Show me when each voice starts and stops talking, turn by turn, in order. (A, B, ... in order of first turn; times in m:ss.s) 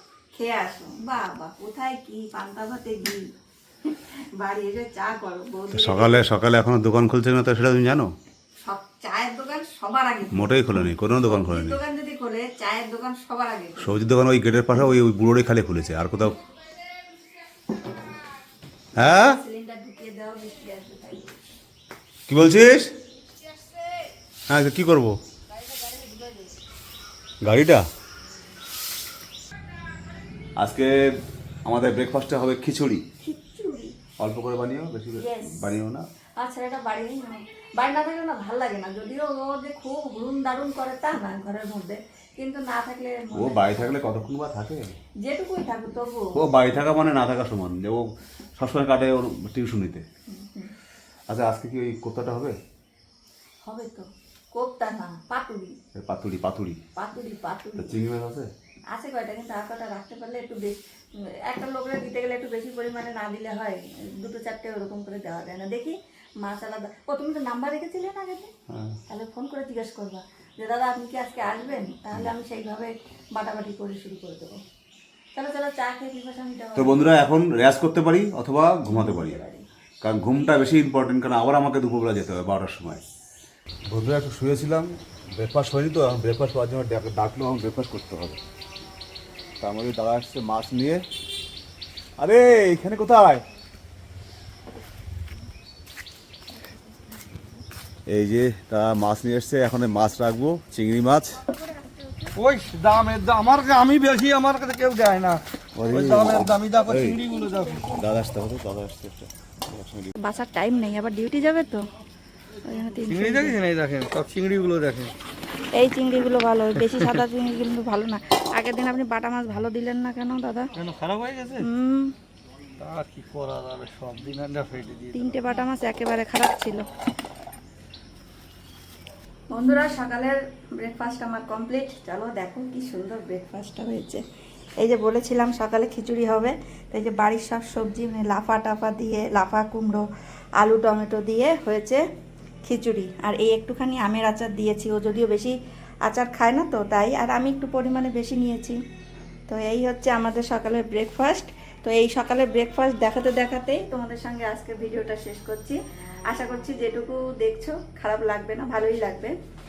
0:00.3-0:03.2 A
0:03.9-0:06.3 A
0:05.7-0:08.1 B
0:08.6-0:13.8 A
0:10.3-0:11.8 B
0:13.8-0:16.4 B
0:16.9-0:17.8 A
0:19.0-0:19.4 B
0:19.0-0:21.4 A
0:22.3-0:22.9 B
0:23.5-0:23.9 A
0:24.5-0:25.2 B
0:25.5-0:26.6 A
0:27.4-0:27.8 B
0:30.6-0:31.0 B
0:31.6-0:33.0 B
0:33.2-0:34.0 A
0:34.2-0:36.0 B
0:35.2-0:35.6 A
0:36.4-0:44.0 A
0:43.4-0:44.9 B
0:45.2-0:46.3 A
0:46.4-0:50.0 B
0:50.3-0:50.7 A
0:51.3-0:52.6 B
0:53.6-0:55.8 A
0:56.0-0:56.8 B
0:57.0-0:58.0 A
0:57.8-0:58.5 B
0:58.9-1:08.5 A
1:08.7-1:09.0 B
1:09.1-1:14.6 A
1:15.4-1:17.2 A
1:16.8-1:19.4 B
1:18.9-1:19.7 A
1:20.0-1:23.0 B
1:23.9-1:28.4 B
1:29.6-1:31.0 B
1:32.2-1:33.4 B
1:36.6-1:37.5 A
1:38.1-1:41.4 B
1:41.4-1:42.4 A
1:42.3-1:47.9 C
1:45.8-1:47.2 B
1:47.2-1:48.0 A
1:47.8-1:50.1 B
1:50.2-1:51.9 A
1:52.6-1:53.6 A
1:53.0-1:55.1 C
1:55.8-2:00.7 A
1:56.9-1:57.2 C
2:00.8-2:01.7 C
2:01.6-2:02.2 A
2:02.8-2:05.6 C
2:05.1-2:06.9 A
2:09.5-2:14.2 A
2:14.8-2:20.0 A
2:20.6-2:22.0 A
2:22.6-2:28.8 A
2:29.5-2:39.3 A